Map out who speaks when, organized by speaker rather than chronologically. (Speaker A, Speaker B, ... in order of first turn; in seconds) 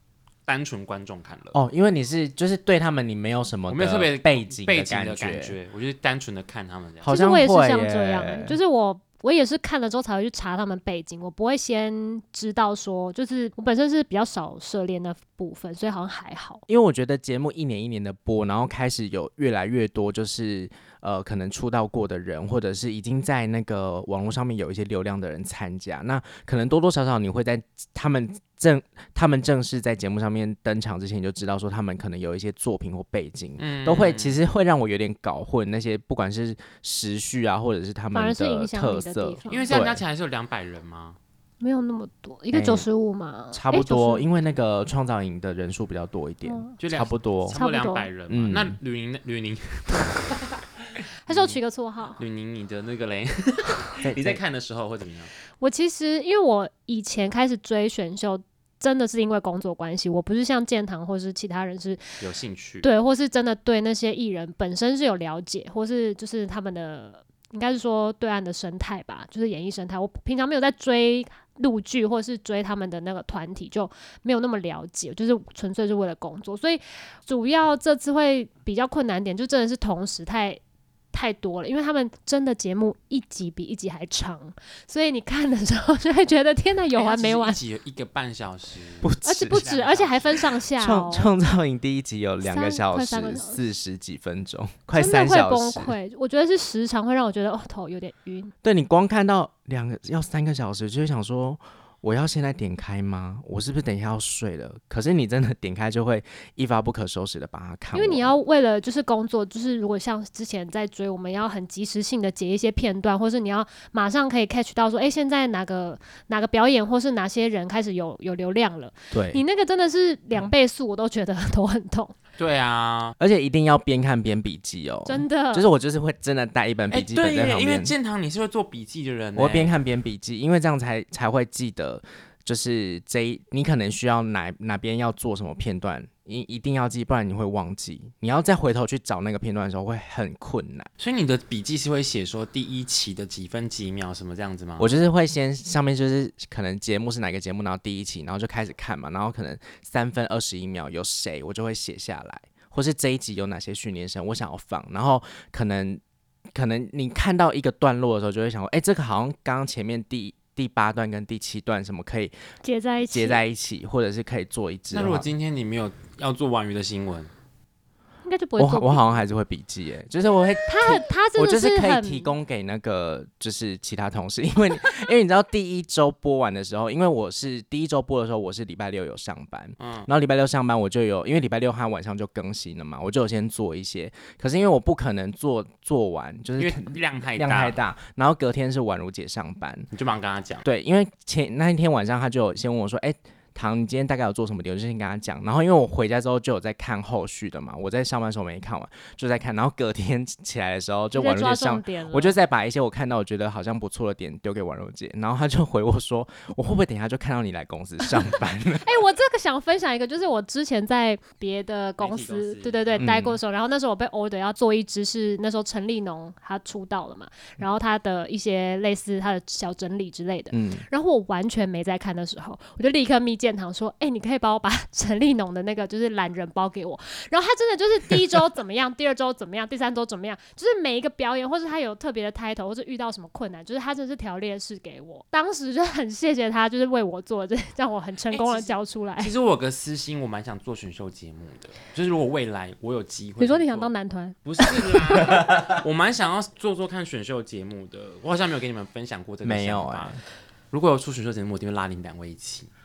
Speaker A: 0.5-1.6, 3.7-7.2, 33.6-34.4, 39.5-41.2, 46.8-50.6, 51.3-51.6, 52.2-55.3, 62.2-62.9, 87.0-90.6, 122.4-123.2, 126.9-129.8, 141.0-144.9, 164.9-167.3, 179.8-180.1, 186.6-187.8, 189.9-190.7, 212.0-213.1, 238.3-243.9, 244.4-250.2, 250.7-252.7
Speaker B: 1.5-5.5, 7.0-8.6, 16.7-40.0, 42.5-42.9, 43.5-47.6, 48.3-48.8, 54.0-54.4, 89.0-89.6, 90.8-96.0, 98.6-108.3, 119.1-119.4, 123.2-127.9, 129.4-140.9, 144.8-156.0, 156.5-162.3, 163.1-165.3, 168.6-189.9, 190.6-208.9, 213.0-213.4, 220.5-220.8, 249.4-250.2
Speaker C: 7.1-16.6, 38.1-39.7, 41.6-44.2, 46.5-46.7, 47.5-48.1, 51.3-52.2, 55.6-62.2, 62.8-80.6, 81.1-87.6, 89.2-91.3, 92.4-93.7, 95.0-98.5, 107.9-122.2, 125.1-125.7, 162.6-163.4, 168.2-169.1, 170.7-172.3, 201.1-202.4, 208.8-239.3, 243.4-245.6